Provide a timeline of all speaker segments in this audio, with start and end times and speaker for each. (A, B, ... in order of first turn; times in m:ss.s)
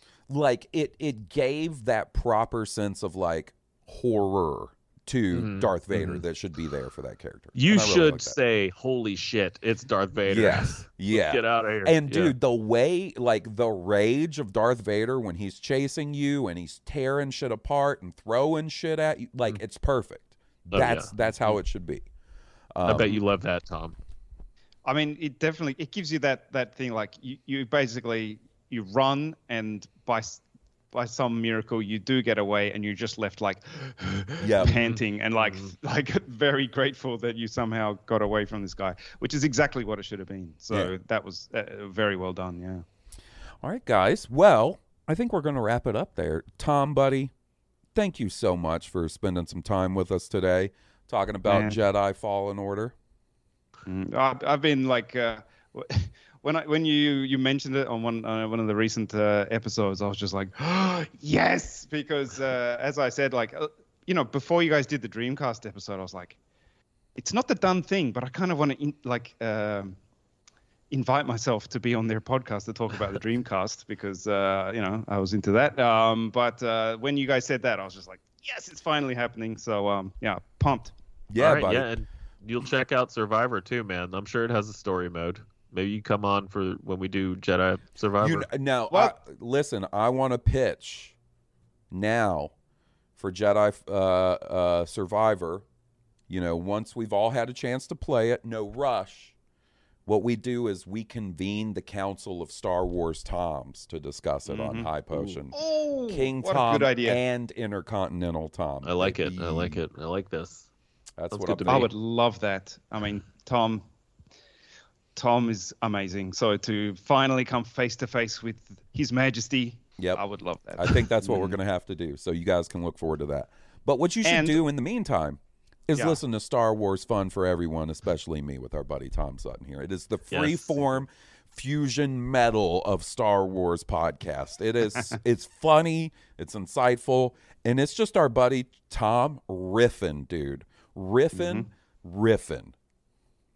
0:00.3-0:08.4 A
0:05.3-0:06.2 B
0:07.6-0:12.4 B
0:10.3-0:22.1 A
0:20.7-0:21.6 B
0:22.8-0:23.2 A
0:22.8-0:24.0 B
0:24.8-0:42.8 C
0:34.4-0:34.8 A
0:34.6-0:35.7 B
0:43.6-0:47.3 A
0:48.0-0:52.9 A
0:51.5-0:51.8 C
0:53.9-1:06.4 C
1:07.2-1:10.0 C
1:10.9-1:20.9 C
1:21.3-1:21.9 A
1:21.4-1:28.5 B
1:28.2-1:31.2 A
1:31.9-1:32.5 A
1:33.2-1:35.6 A
1:36.3-1:39.4 A
1:40.1-1:45.6 A
1:44.5-1:44.9 C
1:45.5-1:47.2 C
1:46.1-1:49.8 A
1:48.8-1:50.7 B
1:51.2-1:51.9 A
1:51.3-1:51.9 B
1:51.4-1:53.9 C
1:55.2-2:01.6 C
2:00.8-2:22.7 A
2:04.2-2:04.6 C
2:06.0-2:06.2 C
2:10.3-2:10.9 B
2:21.3-2:21.7 C